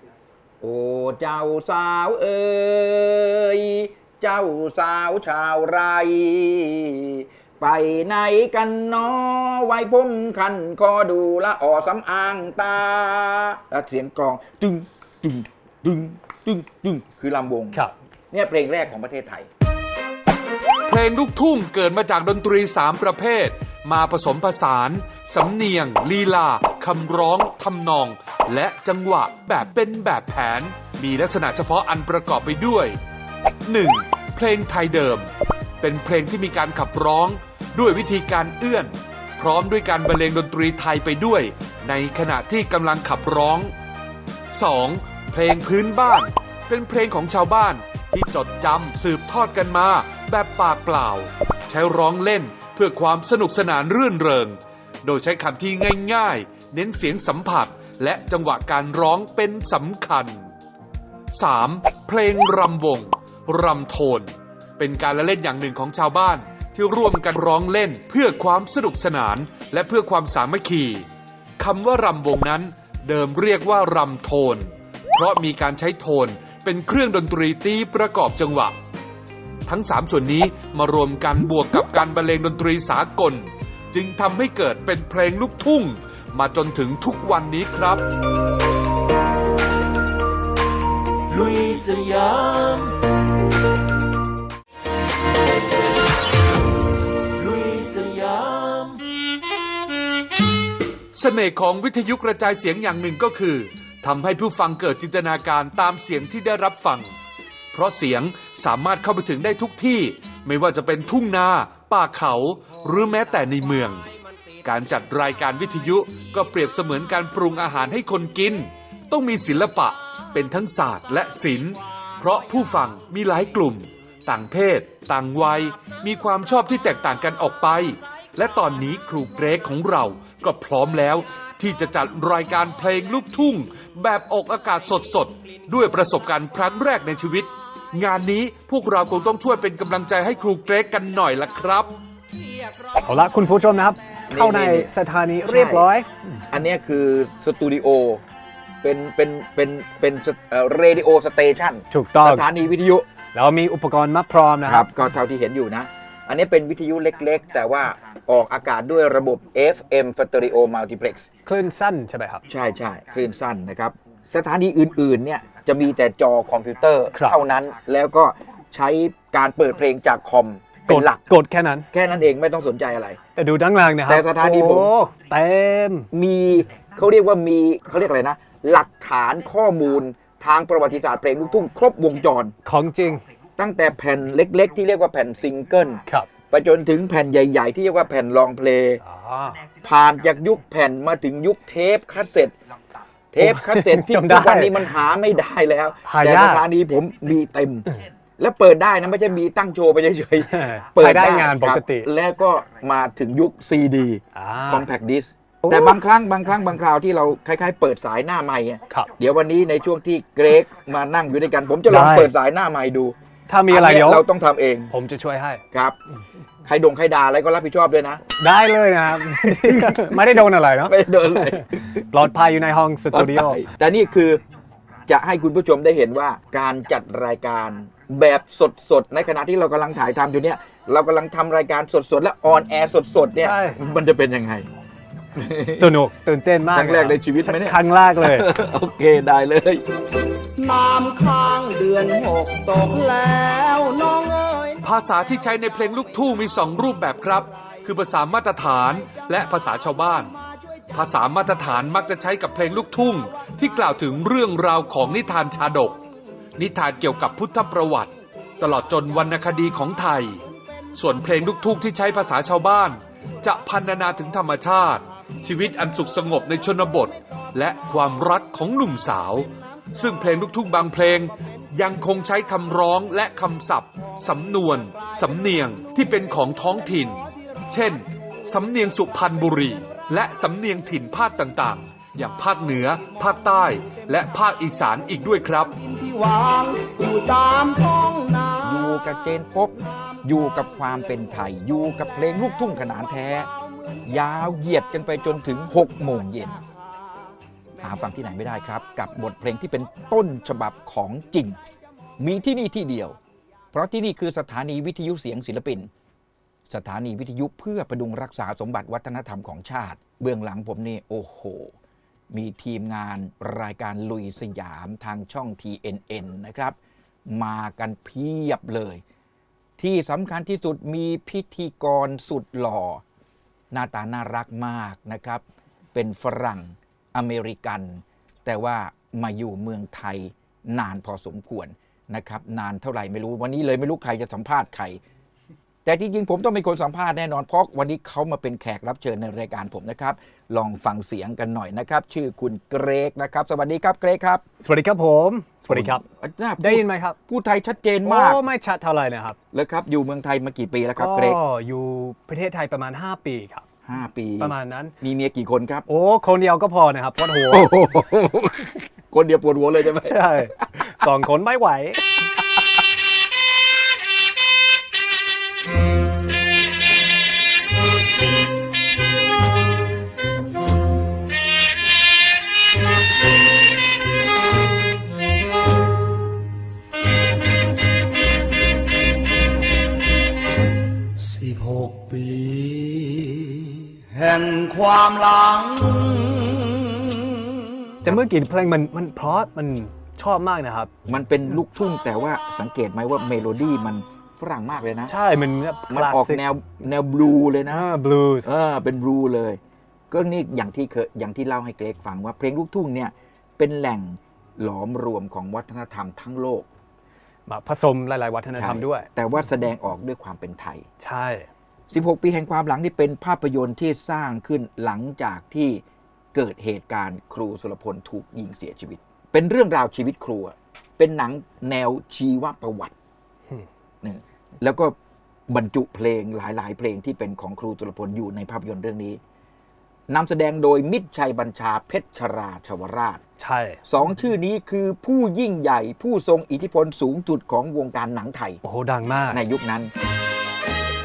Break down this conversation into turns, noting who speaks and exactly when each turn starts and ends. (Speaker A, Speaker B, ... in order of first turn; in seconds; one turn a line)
Speaker A: 0.6-19.5
Speaker B: 20.9-33.0
Speaker B: 33.7-35.3
Speaker B: 35.8-43.7
Speaker B: 44.5-60.5
Speaker B: 61.3-71.0
Speaker B: 71.6-78.8
Speaker B: 79.7-88.0
Speaker C: 91.3-92.9
Speaker C: 97.4-99.0
Speaker B: 101.1-107.1
Speaker B: 107.7-114.0
Speaker B: 114.6-141.9
Speaker D: 143.0-146.1
Speaker A: 144.3-144.9
Speaker A: 145.4-145.9
Speaker A: 146.5-148.2
Speaker A: 148.8-153.1
Speaker D: 151.9-152.5
Speaker D: 153.3-154.8
Speaker A: 154.6-161.3
Speaker D: 161.4-162.4
Speaker A: 162.5-171.2
Speaker D: 167.1-167.4
Speaker D: 170.9-171.9
Speaker A: 171.9-173.2
Speaker D: 173.3-176.1
Speaker A: 174.0-174.9
Speaker A: 176.1-182.5
Speaker D: 182.6-183.2
Speaker A: 183.6-189.0
Speaker D: 189.0-189.6
Speaker A: 189.8-192.5
Speaker A: 193.3-213.1
Speaker D: 193.4-194.8
Speaker D: 196.1-196.7
Speaker D: 200.5-202.1
Speaker D: 204.3-204.9
Speaker D: 205.6-205.9
Speaker D: 211.9-212.3
Speaker D: 213.5-214.2
Speaker A: 213.7-214.9
Speaker D: 214.9-215.6
Speaker A: 215.7-216.0
Speaker A: 216.6-218.3
Speaker D: 218.4-223.6
Speaker A: 219.1-222.2
Speaker A: 223.1-224.4
Speaker A: 225.1-234.7
Speaker D: 233.4-233.8
Speaker A: 235.3-235.9
Speaker D: 235.8-238.5
Speaker A: 236.7-239.8
Speaker E: 240.6-244.8
Speaker B: 244.8-250.3
Speaker B: 250.9-256.0
Speaker B: 256.6-260.4
Speaker B: 260.9-285.7
Speaker E: 285.8-288.8
Speaker A: 288.6-293.5
Speaker A: 294.0-296.6
Speaker A: 297.8-301.6
Speaker A: 302.2-303.2
Speaker A: 303.7-305.9
Speaker A: 306.7-311.7
Speaker A: 312.3-316.8
Speaker A: 317.3-319.0
Speaker A: 319.8-323.0
Speaker A: 323.7-325.4
Speaker A: 325.9-335.0
Speaker A: 335.8-344.4
Speaker D: 344.6-346.0
Speaker A: 345.7-348.4
Speaker D: 346.6-347.2
Speaker D: 348.0-349.4
Speaker A: 349.5-351.4
Speaker D: 351.0-353.6
Speaker A: 353.9-355.9
Speaker D: 354.4-354.9
Speaker D: 355.9-357.7
Speaker A: 357.5-360.7
Speaker D: 360.0-362.0
Speaker E: 381.2-387.4
Speaker D: 388.0-390.9
Speaker A: 391.1-395.1
Speaker D: 395.1-396.4
Speaker A: 395.9-397.9
Speaker D: 397.7-398.5
Speaker A: 398.4-406.7
Speaker D: 407.5-409.1
Speaker A: 408.5-410.9
Speaker D: 411.0-411.5
Speaker A: 411.9-422.9
Speaker A: 424.0-424.9
Speaker A: 425.5-429.2
Speaker A: 430.1-433.2
Speaker D: 433.4-433.8
Speaker A: 433.8-438.6
Speaker D: 438.6-439.4
Speaker A: 439.3-439.9